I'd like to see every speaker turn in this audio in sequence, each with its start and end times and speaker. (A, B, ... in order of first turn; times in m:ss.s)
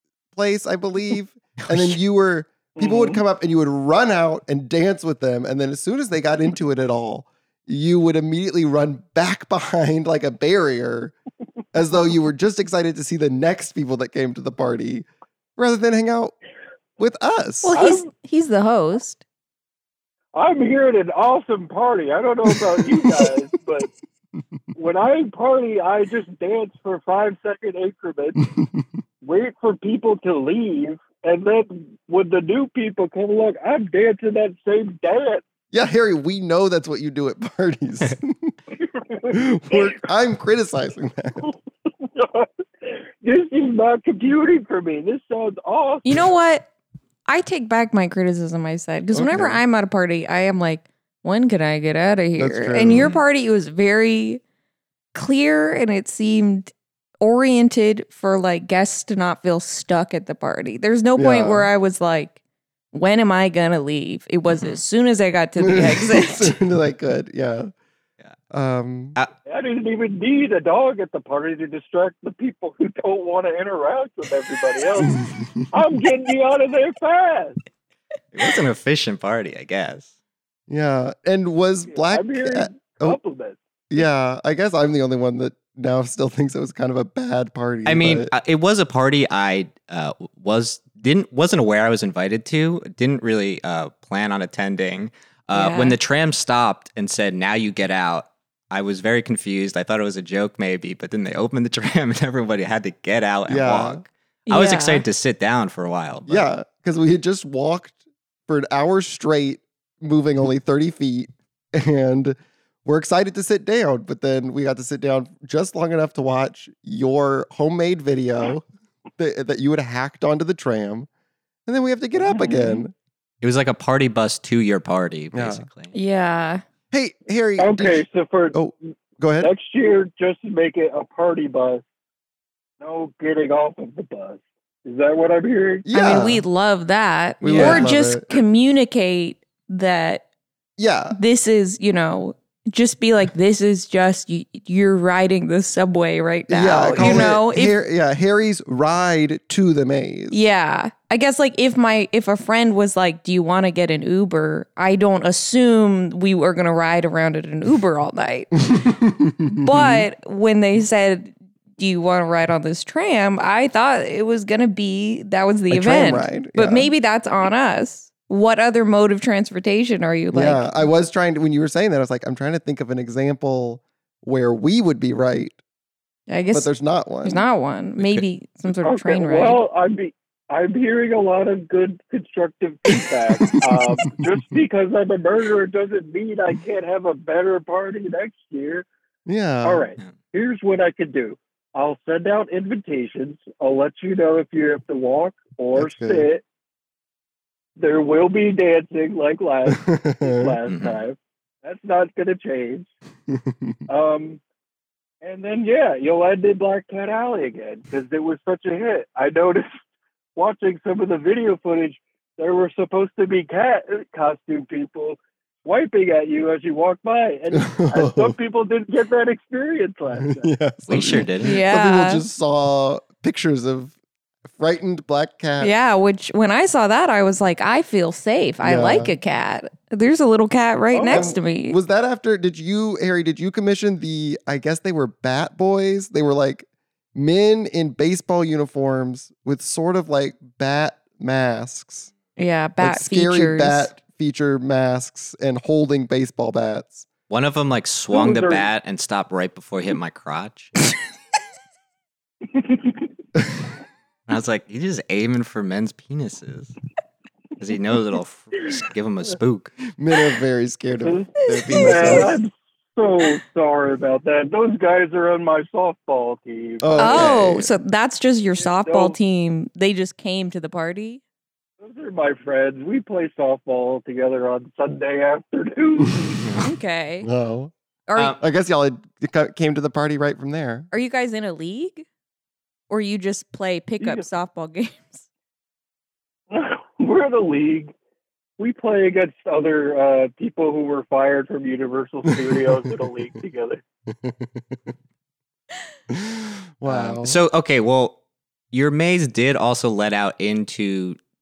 0:00.3-0:11.1 A
0:02.8-0:03.2 B
0:11.7-0:16.3 A
0:17.0-0:17.8 A
0:17.6-0:19.2 C
0:17.7-0:18.0 B
0:20.3-0:23.9 B
0:22.5-0:23.3 A
0:24.7-0:28.5 B
0:28.6-0:28.8 A
0:29.2-0:35.4 B
0:35.7-0:38.5 A
0:39.0-0:39.9 B
0:39.3-0:41.5 A
0:42.0-0:46.2 B
0:46.0-0:46.7 C
0:47.2-0:54.4 C
0:49.1-0:49.6 A
0:52.4-0:53.1 A
0:52.9-0:53.2 D
0:55.1-1:02.4 C
1:01.2-1:01.7 A
1:02.9-1:06.5 C
1:04.5-1:04.8 D
1:05.6-1:07.7 A
1:08.5-1:09.2 A
1:09.4-1:17.6 B
1:15.0-1:15.7 A
1:18.3-1:20.1 D
1:20.7-1:23.2 A
1:21.9-1:23.6 B
1:23.9-1:28.3 A
1:27.8-1:46.5 D
1:35.5-1:36.0 C
1:43.5-1:44.0 A
1:44.5-1:45.0 C
1:46.3-1:58.6 A
1:59.2-2:01.1 A
2:01.6-2:02.9 A
2:02.2-2:02.8 B
2:03.4-2:05.9 D
2:05.3-2:05.7 A
2:05.9-2:06.6 C
2:06.9-2:09.5 A
2:07.6-2:08.6 B
2:09.4-2:11.8 B
2:12.8-2:15.9 B
2:15.8-2:16.4 A
2:15.9-2:20.2 C
2:17.4-2:17.9 D
2:17.4-2:18.3 A
2:20.8-2:21.2 A
2:21.1-2:27.7 C
2:26.5-2:30.4 A
2:27.0-2:27.3 D
2:30.3-2:38.6 C
2:38.7-2:40.1 A
2:39.5-2:50.8 C
2:45.7-2:46.9 A
2:50.3-2:55.6 A
2:56.3-2:56.7 C
2:56.5-2:57.4 A
2:57.2-2:59.6 C
2:58.0-2:58.2 D
2:58.8-3:08.8 B
3:03.4-3:04.2 A
3:09.2-3:09.9 A
3:09.6-3:16.4 B
3:15.7-3:16.3 A
3:17.8-3:22.9 B
3:19.7-3:20.5 A
3:20.7-3:21.0 D
3:23.3-3:23.8 A
3:23.9-3:24.4 B
3:25.2-3:29.8 B
3:30.4-3:40.5 B
3:37.5-3:38.4 A
3:40.2-3:43.9 A
3:40.9-3:41.5 D
3:41.4-3:42.2 C
3:44.5-3:45.7 A
3:45.6-3:51.8 C
3:48.6-3:49.1 A
3:50.9-3:51.4 B
3:51.1-4:02.1 A
4:02.4-4:03.9 C
4:02.8-4:07.1 A
4:07.3-4:10.7 D
4:08.1-4:08.6 B
4:12.5-4:13.0 B
4:14.3-4:16.7 D
4:17.6-4:19.7 D
4:20.0-4:22.4 A
4:21.0-4:27.3 B
4:21.6-4:22.3 C
4:26.8-4:27.7 A
4:27.0-4:31.2 C
4:28.6-4:29.2 B
4:31.8-4:36.4 B
4:36.4-4:36.7 D
4:36.6-4:37.3 C
4:37.2-4:37.7 A
4:38.1-4:38.3 C
4:38.1-4:38.4 D
4:38.4-4:40.9 A
4:40.9-4:42.0 C
4:42.9-4:45.2 C
4:44.0-4:44.3 B
4:46.5-4:47.9 B
4:48.6-4:53.8 B
4:54.2-4:54.9 A
4:56.1-4:57.4 A
4:56.8-4:58.2 D
4:58.7-5:01.2 D